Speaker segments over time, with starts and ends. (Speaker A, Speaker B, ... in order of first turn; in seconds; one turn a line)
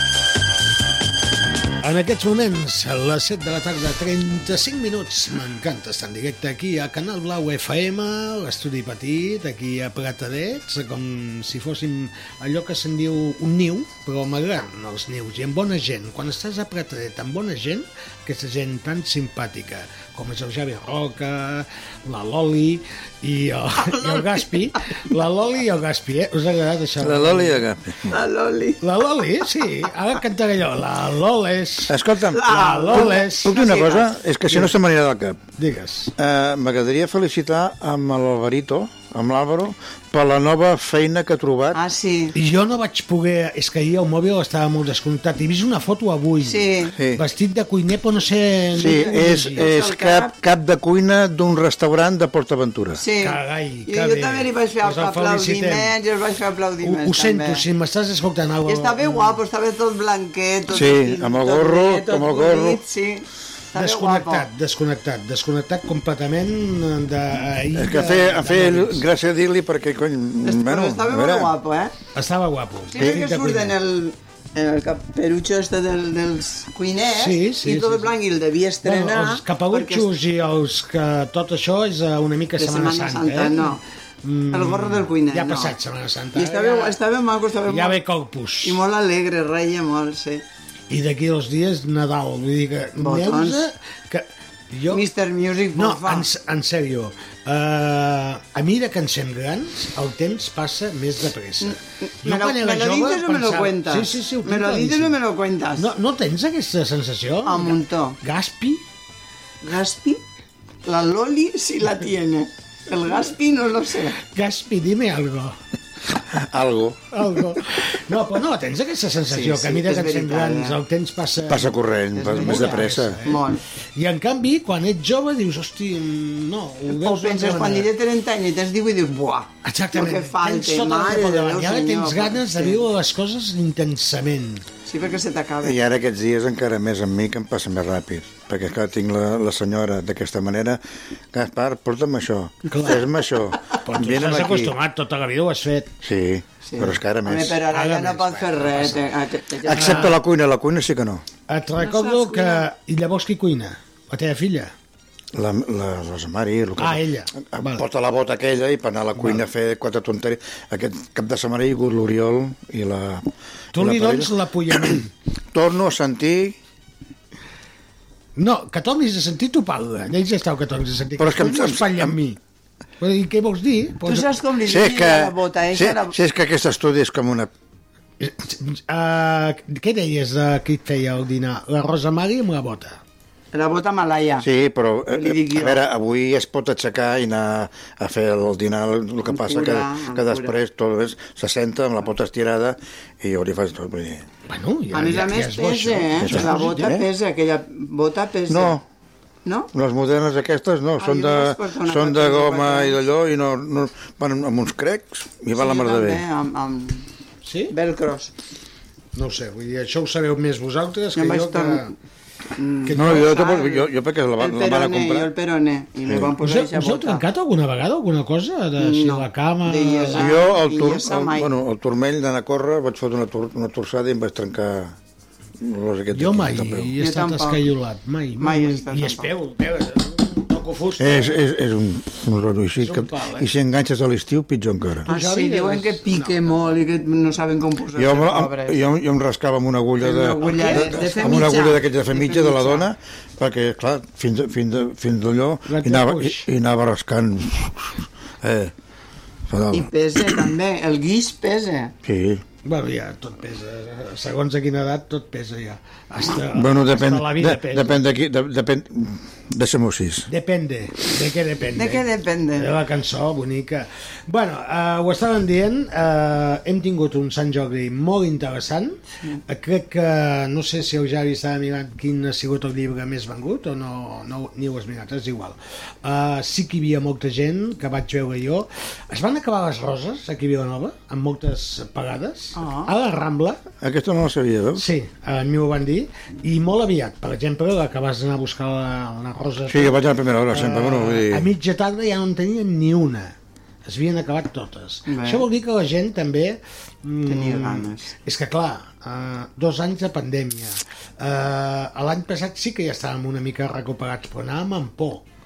Speaker A: 1.8-27.6
Speaker B: 23.9-24.4
Speaker C: 27.0-28.2
Speaker B: 28.1-28.8
Speaker A: 28.8-33.8
Speaker C: 31.9-35.4
Speaker B: 32.3-34.1
Speaker A: 34.5-34.7
Speaker A: 35.6-36.1
Speaker C: 36.2-41.8
Speaker B: 41.7-42.4
Speaker A: 42.4-49.7
Speaker B: 46.4-47.0
Speaker C: 47.0-47.2
Speaker C: 48.7-53.0
Speaker B: 48.8-50.3
Speaker B: 53.0-57.6
Speaker A: 53.2-56.0
Speaker A: 56.8-59.4
Speaker B: 58.7-64.5
Speaker C: 60.7-62.8
Speaker A: 63.8-69.0
Speaker C: 67.7-71.5
Speaker B: 70.4-71.9
Speaker A: 72.2-73.8
Speaker B: 72.9-80.1
Speaker A: 77.1-78.1
Speaker A: 78.8-87.0
Speaker B: 82.6-83.8
Speaker B: 84.5-85.8
Speaker B: 86.3-88.0
Speaker A: 87.7-88.8
Speaker B: 88.6-90.4
Speaker A: 90.9-95.0
Speaker B: 93.0-93.6
Speaker B: 94.9-96.3
Speaker A: 95.7-105.2
Speaker B: 101.6-105.9
Speaker A: 105.8-108.8
Speaker B: 107.5-108.2
Speaker B: 109.6-110.2
Speaker B: 110.9-114.2
Speaker A: 114.2-115.6
Speaker C: 116.3-117.1
Speaker A: 117.1-123.5
Speaker B: 119.3-120.8
Speaker C: 121.5-123.2
Speaker B: 122.2-123.6
Speaker A: 124.0-127.9
Speaker B: 126.9-132.8
Speaker A: 129.6-134.7
Speaker B: 134.9-135.8
Speaker C: 135.6-140.8
Speaker C: 141.3-144.7
Speaker A: 142.7-143.1
Speaker A: 143.8-145.9
Speaker C: 146.0-147.7
Speaker B: 146.7-150.1
Speaker A: 147.7-149.0
Speaker C: 149.6-151.2
Speaker A: 149.7-150.2
Speaker A: 151.5-154.7
Speaker B: 151.8-152.7
Speaker C: 155.3-166.6
Speaker A: 156.8-157.8
Speaker A: 163.7-165.1
Speaker A: 168.4-172.4
Speaker C: 171.2-172.2
Speaker A: 173.0-174.3
Speaker B: 174.1-176.2
Speaker C: 174.6-177.5
Speaker A: 178.2-183.0
Speaker B: 183.5-184.5
Speaker C: 184.4-194.2
Speaker B: 185.1-185.8
Speaker B: 189.3-190.6
Speaker A: 194.5-197.0
Speaker B: 194.9-198.8
Speaker C: 196.2-197.1
Speaker C: 198.5-198.8
Speaker C: 199.7-206.2
Speaker B: 201.0-203.0
Speaker B: 205.5-207.1
Speaker A: 207.4-207.7
Speaker B: 207.7-208.3
Speaker A: 209.2-211.9
Speaker B: 211.2-211.9
Speaker B: 212.6-213.9
Speaker A: 212.8-213.3
Speaker C: 212.9-215.3
Speaker B: 214.4-217.2
Speaker C: 216.1-216.3
Speaker A: 216.4-220.4
Speaker B: 218.8-221.5
Speaker C: 220.1-225.0
Speaker C: 225.6-226.9
Speaker A: 226.1-231.4
Speaker B: 227.0-227.7
Speaker B: 228.4-229.3
Speaker C: 231.0-235.1
Speaker A: 232.8-233.5
Speaker B: 235.1-238.8
Speaker A: 235.1-236.4
Speaker C: 238.0-248.7
Speaker B: 240.0-242.9
Speaker A: 240.4-241.6
Speaker A: 245.7-246.5
Speaker C: 249.5-250.5
Speaker B: 249.7-251.9
Speaker C: 252.0-252.4
Speaker A: 252.6-258.0
Speaker C: 256.4-260.3
Speaker A: 260.3-262.0
Speaker B: 261.8-262.7
Speaker A: 262.6-283.6
Speaker B: 282.6-282.9
Speaker C: 283.8-284.9
Speaker A: 284.8-293.4
Speaker C: 289.7-291.5
Speaker A: 293.9-305.2
Speaker B: 295.1-295.4
Speaker B: 297.3-298.1